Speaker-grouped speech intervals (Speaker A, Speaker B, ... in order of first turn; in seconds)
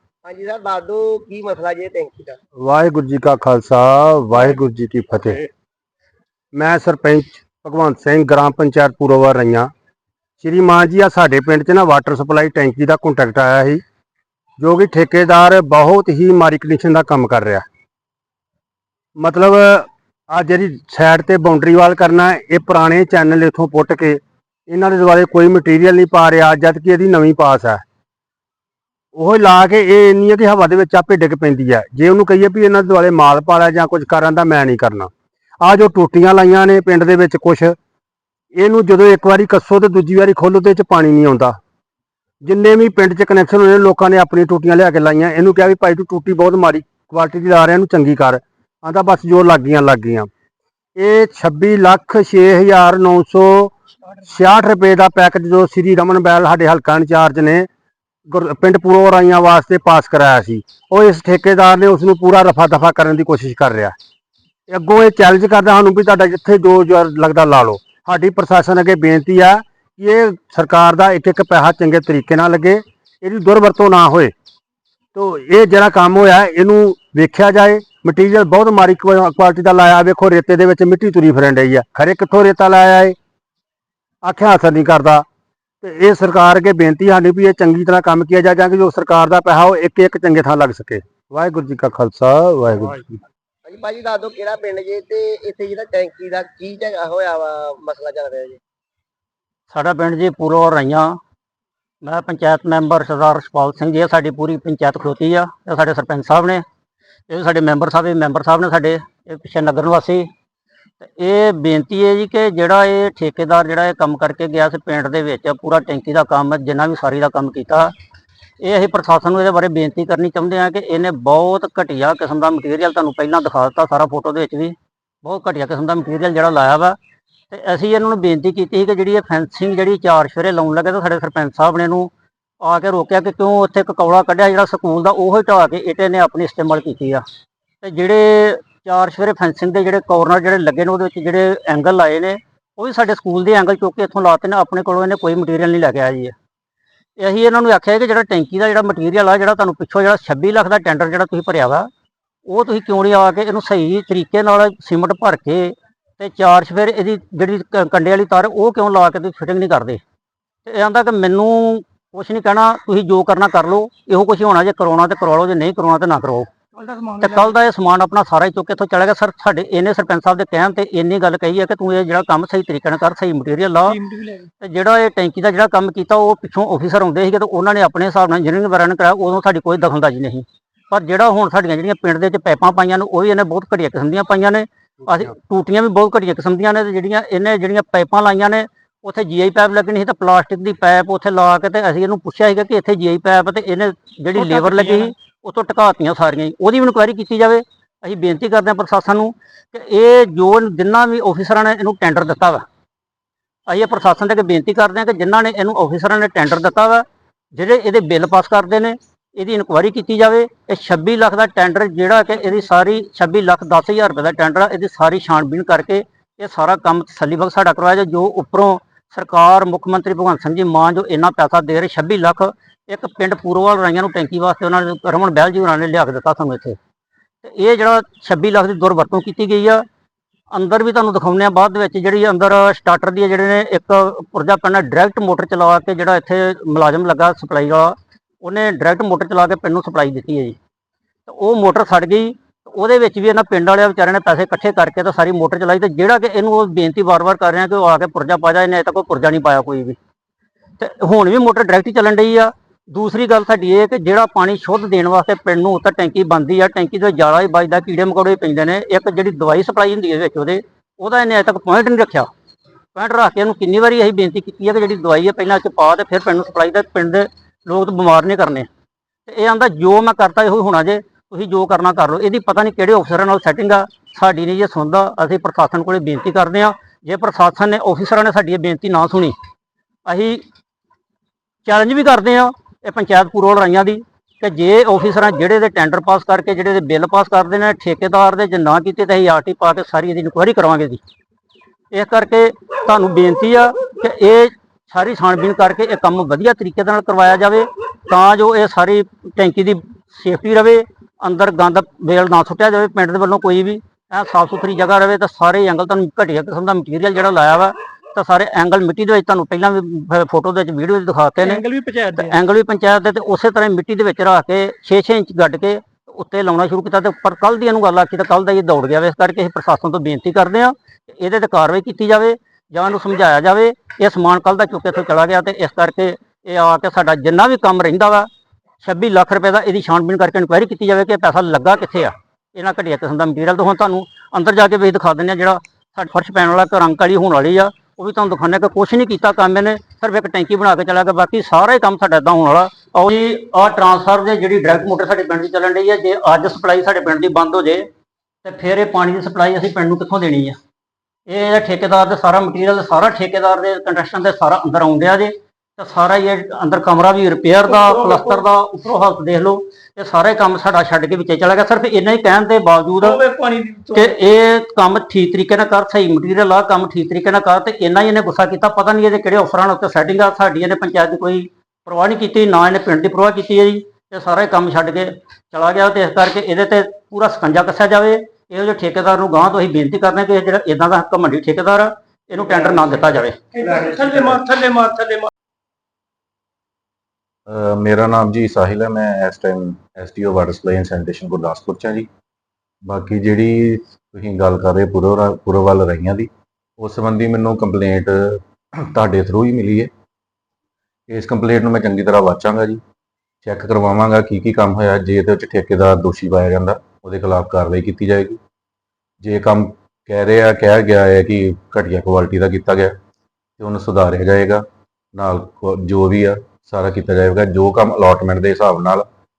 Speaker A: 0.2-2.4, 93.7-98.6
Speaker B: 2.6-5.5, 6.5-9.7, 10.4-13.8, 14.6-17.6, 19.2-27.8, 29.1-35.1, 35.6-37.8, 38.6-41.6, 42.4-50.3, 51.0-53.7, 54.2-57.7, 58.3-63.9, 64.7-74.3, 75.1-83.2, 84.2-85.2, 85.8-93.2
Speaker C: 99.7-101.2, 102.0-106.6, 107.3-110.3, 111.0-117.9, 118.6-127.0, 127.5-137.2, 137.8-146.3, 147.2-151.9, 152.5-160.0, 160.7-166.5, 167.2-174.0, 174.6-202.7, 203.7-226.8, 227.4-229.8, 230.5-240.6, 241.3-250.0, 250.8-262.3, 262.9-268.7, 269.3-279.4, 280.1-280.4, 281.6-291.0, 291.9-328.3, 328.8-347.9, 348.4-350.6, 351.3-363.2, 363.9-383.4
Speaker D: 166.8-167.5, 173.9-174.4, 194.3-195.1, 311.4-312.4, 357.7-358.4, 363.0-364.1, 383.6-385.3
Speaker E: 387.5-392.1, 392.9-399.9, 401.1-402.8, 403.4-408.4, 409.2-412.9, 413.6-414.6, 415.1-419.1